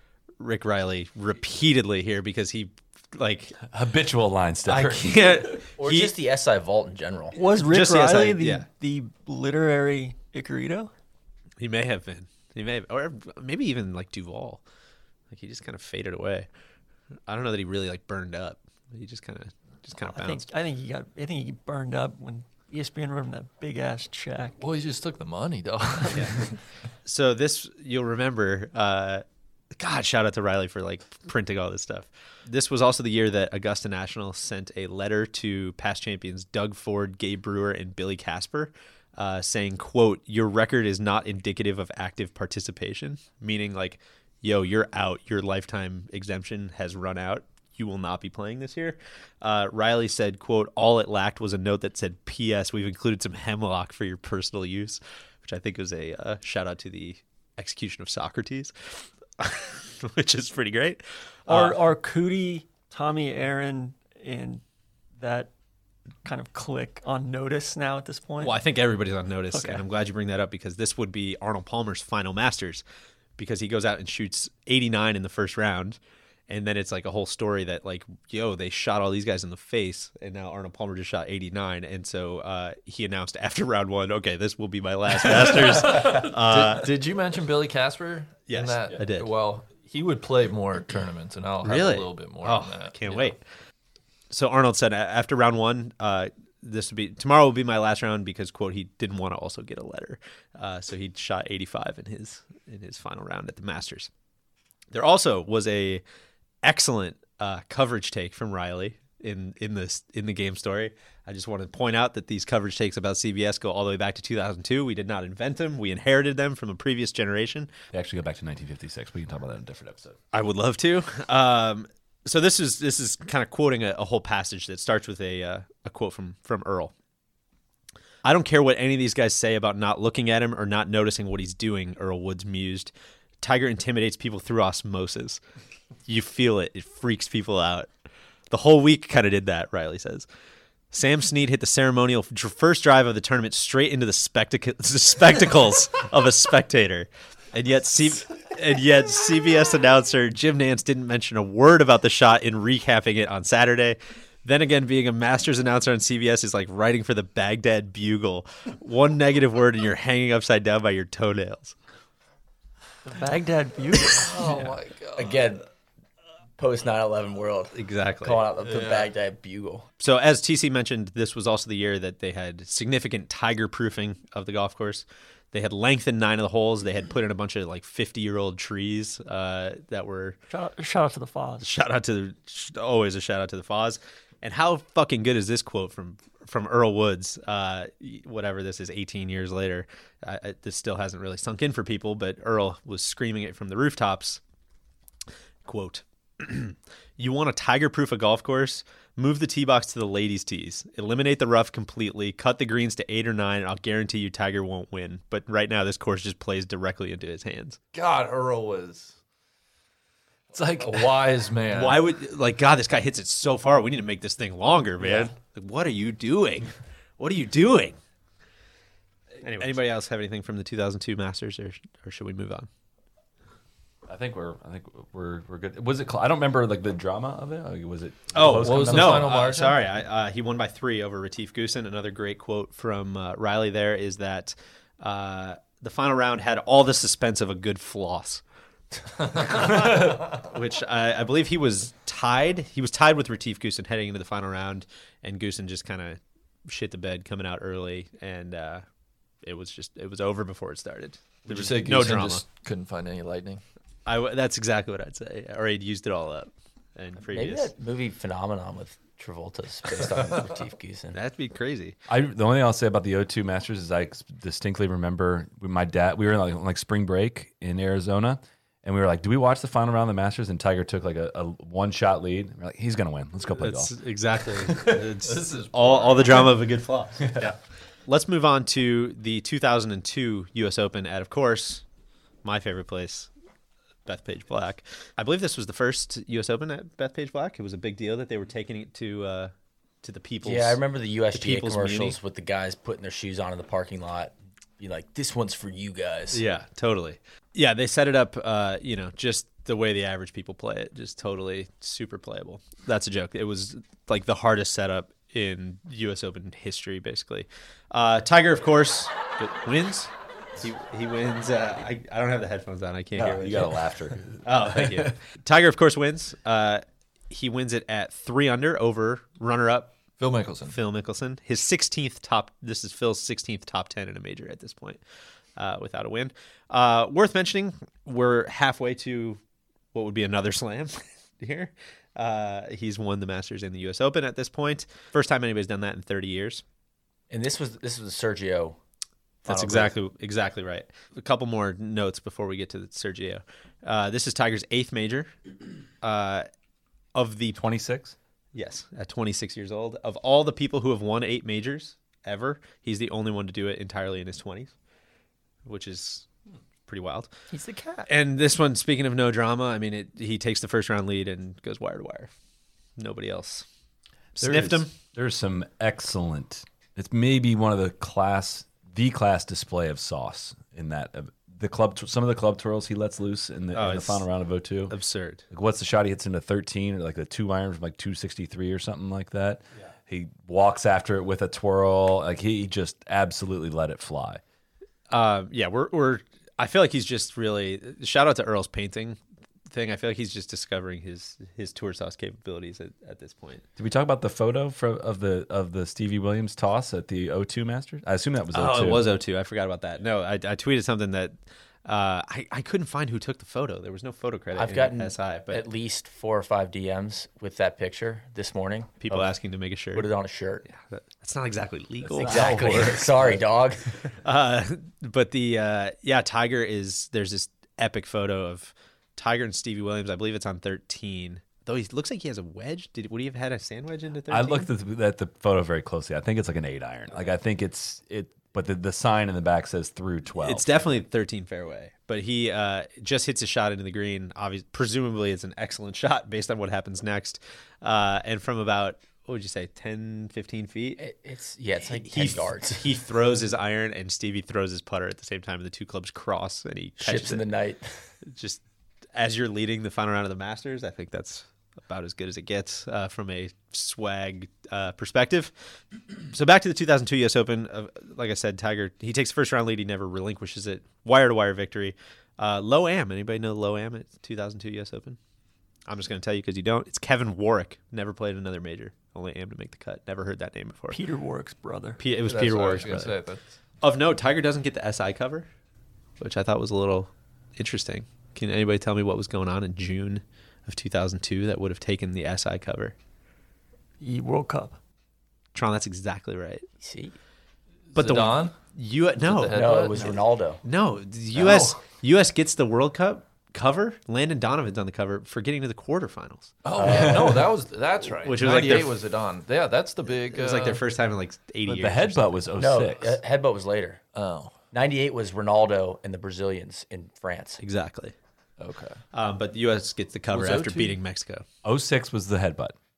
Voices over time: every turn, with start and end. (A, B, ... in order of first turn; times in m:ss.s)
0:00.4-0:03.6 A
0:03.6-0:05.5 B
0:04.6-0:06.1 A
0:05.8-0:07.4 C
0:07.3-0:10.9 D
0:07.6-0:08.6 A
0:11.6-0:14.6 A
0:15.3-0:16.5 A
0:17.3-0:20.4 A
0:20.0-0:24.6 D
0:24.6-0:26.6 E
0:26.0-0:26.3 D
0:27.0-0:29.2 A
0:29.8-0:58.7 A
0:59.4-1:01.8 A
1:01.5-1:04.6 D
1:05.2-1:05.5 D
1:06.2-1:08.6 D
1:08.4-1:12.8 A
1:09.5-1:09.8 D
1:13.4-1:16.0 A
1:16.5-1:26.9 A
1:25.7-1:33.3 E
1:28.5-1:29.3 A
1:31.6-1:33.4 A
1:34.3-1:44.1 A
1:44.9-1:46.0 A
1:46.6-1:57.7 A
1:57.9-2:00.2 B
2:00.3-2:06.9 A
2:08.2-2:15.4 A
2:16.0-2:17.9 A
2:18.5-2:20.2 A
2:20.9-2:41.7 A
2:43.0-2:44.7 D
2:44.2-2:45.4 E
2:45.2-2:45.6 C
2:46.6-2:49.8 C
2:47.7-2:48.4 A
2:48.6-2:49.1 E
2:50.0-3:00.4 A
3:00.5-3:01.7 D
3:01.6-3:14.4 A
3:15.6-3:27.8 A
3:27.9-3:29.1 E
3:30.5-3:32.0 E
3:31.7-3:38.0 A
3:39.4-3:42.7 A
3:44.1-3:49.3 B
3:48.3-3:58.4 A
3:48.6-3:49.8 E
3:59.2-4:08.8 A
4:09.4-4:12.4 A
4:11.5-4:13.6 E
4:14.0-4:17.7 A
4:17.3-4:21.2 C
4:21.1-4:22.0 A
4:22.1-4:33.9 B
4:33.6-4:41.8 A
4:35.2-4:36.5 E
4:37.2-4:37.5 B
4:42.4-4:43.3 A
4:44.0-4:49.5 A
4:50.0-4:50.8 A
4:50.4-4:56.4 C
4:51.3-4:52.2 A
4:56.3-5:13.8 A
5:13.2-5:15.0 B
5:14.4-5:20.0 A
5:20.2-5:20.8 E
5:20.6-5:25.0 A
5:25.6-5:29.4 A
5:29.9-5:36.6 A
5:37.3-5:38.8 C
5:39.4-5:45.3 A
5:39.4-5:39.9 C
5:46.0-5:46.4 A
5:47.1-5:47.6 A
5:47.5-5:48.1 B
5:48.5-5:54.7 A
5:55.6-5:56.3 A
5:56.8-5:57.3 A
5:57.5-5:58.1 D
5:58.1-6:02.3 A
6:03.0-6:03.6 A
6:04.4-6:04.9 A
6:04.4-6:14.9 B
6:13.7-6:14.2 A
6:14.9-6:15.4 A
6:15.5-6:24.4 B
6:25.1-6:29.2 A
6:29.7-6:33.6 A
6:33.8-6:39.0 B
6:38.5-6:41.3 A
6:41.8-6:45.6 A
6:44.5-6:49.3 C
6:49.0-6:50.1 A
6:49.9-6:50.6 C
6:50.7-6:53.1 A
6:52.0-6:53.4 B
6:52.2-6:54.0 C
6:54.2-7:04.7 A
7:04.3-7:10.7 B
7:10.4-7:21.0 A
7:21.0-7:22.9 C
7:21.9-7:27.4 A
7:27.0-7:28.0 C
7:28.2-7:28.6 A
7:29.1-7:35.5 A
7:36.3-7:45.2 A
7:45.9-7:51.0 A
7:50.9-7:52.0 D
7:52.0-7:53.1 A
7:52.2-7:53.4 E
7:53.8-7:55.5 A
7:56.2-8:02.9 A
8:04.0-8:04.8 D
8:05.5-8:06.6 A
8:06.8-8:07.1 C
8:07.9-8:08.5 E
8:07.9-8:09.6 A
8:09.2-8:10.2 E
8:09.5-8:10.6 C
8:10.6-8:16.6 A
8:16.6-8:20.8 E
8:16.8-8:17.5 C
8:18.2-8:19.0 A
8:20.3-8:22.3 A
8:21.6-8:23.2 B
8:22.6-8:24.0 C
8:24.1-8:24.6 E
8:24.7-8:27.6 C
8:27.6-8:28.1 A
8:28.6-8:29.0 E
8:29.1-8:31.4 A
8:30.4-8:30.9 B
8:31.6-8:32.8 B